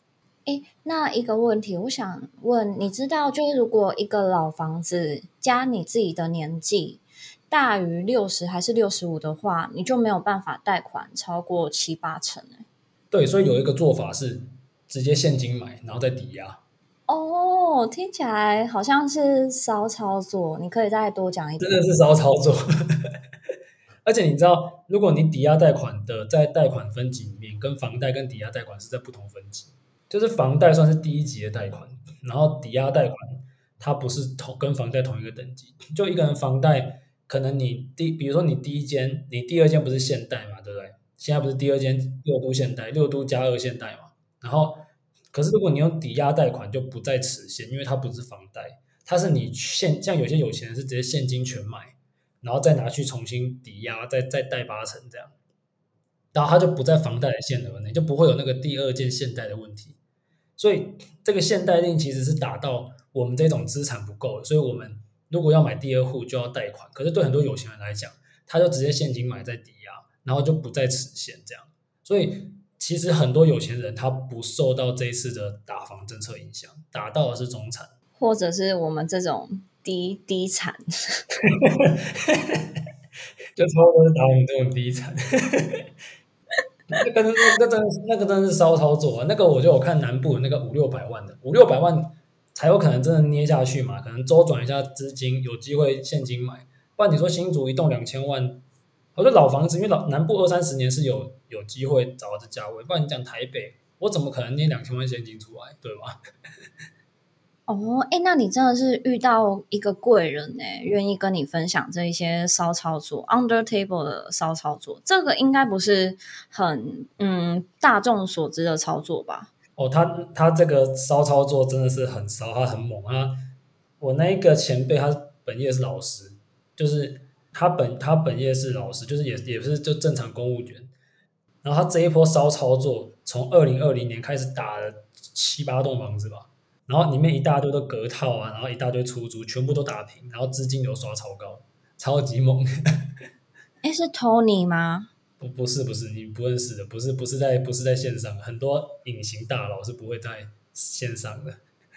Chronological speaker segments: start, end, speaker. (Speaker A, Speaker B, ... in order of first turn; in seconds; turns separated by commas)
Speaker A: 0.5-12.6, Speaker B: 13.1-16.6, Speaker A: 17.1-21.8, Speaker B: 21.6-23.1, Speaker B: 24.0-55.3, Speaker B: 56.3-60.0, Speaker B: 60.6-77.9, Speaker A: 78.2-81.2, Speaker B: 81.6-82.6, Speaker B: 83.5-85.8, Speaker B: 86.9-98.6, Speaker B: 99.1-106.2, Speaker A: 107.7-119.5, Speaker B: 119.8-123.3, Speaker B: 124.0-130.9, Speaker B: 131.6-142.7, Speaker A: 143.8-145.1, Speaker B: 145.4-151.6